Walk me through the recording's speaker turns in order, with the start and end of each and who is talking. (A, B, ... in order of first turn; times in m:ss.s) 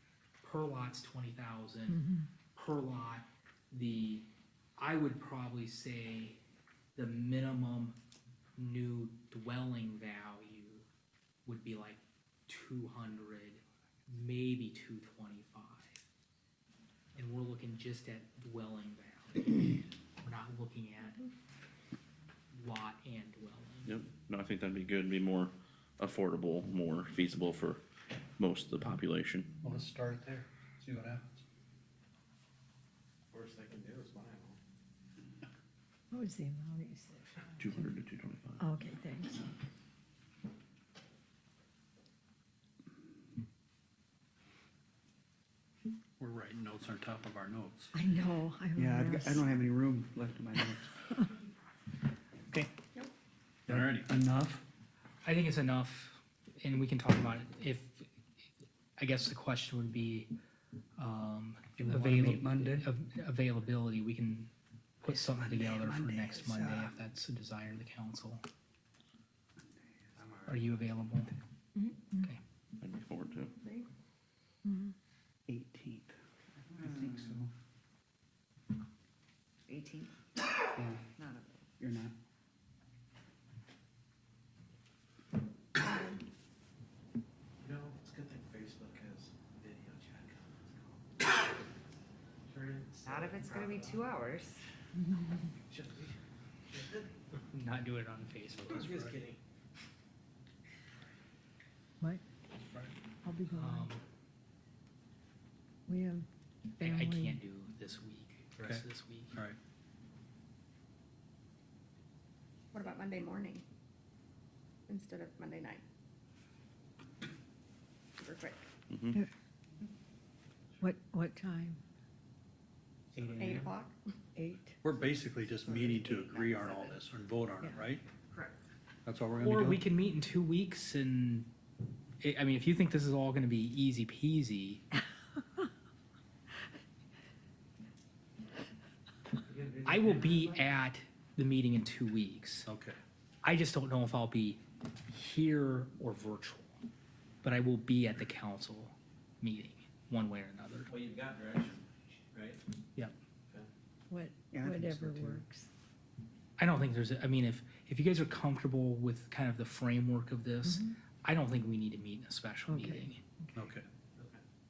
0:00.4-0:02.0 A
0:01.9-0:02.3 B
0:02.5-0:06.4 A
0:07.0-0:08.0 A
0:08.6-0:10.8 A
0:11.4-0:16.0 A
0:17.1-0:21.3 A
0:22.5-0:23.9 A
0:23.8-0:27.8 C
0:28.4-0:29.5 C
0:29.6-0:31.4 D
0:33.3-0:34.6 E
0:36.1-0:37.8 B
0:37.6-0:38.6 C
0:38.6-0:39.5 B
0:46.2-0:47.9 D
0:47.9-0:49.4 B
0:48.8-0:51.0 F
0:53.7-0:54.1 D
0:53.7-0:54.6 F
0:55.2-0:58.0 A
0:59.0-1:00.3 A
1:01.0-1:08.4 A
1:01.8-1:02.9 F
1:05.0-1:06.9 F
1:10.1-1:10.8 E
1:10.5-1:11.3 A
1:11.8-1:12.3 B
1:12.8-1:13.5 C
1:13.6-1:13.9 G
1:14.6-1:14.9 B
1:15.5-1:17.5 F
1:16.8-1:17.4 H
1:19.7-1:20.2 H
1:20.7-1:21.0 F
1:21.2-1:21.6 H
1:21.8-1:22.1 F
1:25.8-1:26.2 G
1:27.6-1:31.3 E
1:32.4-1:34.1 E
1:33.0-1:34.6 H
1:35.7-1:37.1 E
1:37.5-1:38.8 A
1:38.5-1:39.2 D
1:38.6-1:39.4 E
1:42.5-1:43.0 D
1:43.2-1:43.9 B
1:43.5-1:44.0 A
1:45.9-1:47.4 B
1:46.8-1:49.3 A
1:48.6-1:49.6 D
1:52.7-1:53.6 G
1:54.9-1:55.8 G
1:58.2-1:58.6 G
1:58.9-1:59.2 C
2:00.8-2:01.8 B
2:03.1-2:03.7 E
2:03.2-2:03.7 D
2:03.4-2:04.0 G
2:04.4-2:04.8 B
2:04.8-2:08.0 D
2:09.0-2:09.8 D
2:09.4-2:11.5 A
2:12.2-2:14.8 A
2:19.4-2:20.7 E
2:19.8-2:22.7 A
2:22.6-2:23.0 D
2:23.4-2:26.8 A
2:27.4-2:30.9 A
2:30.9-2:32.6 E
2:34.1-2:35.7 B
2:34.5-2:35.4 F
2:36.6-2:43.2 A
2:40.6-2:40.9 B
2:42.7-2:43.6 B
2:43.5-2:43.8 D
2:44.2-2:44.4 E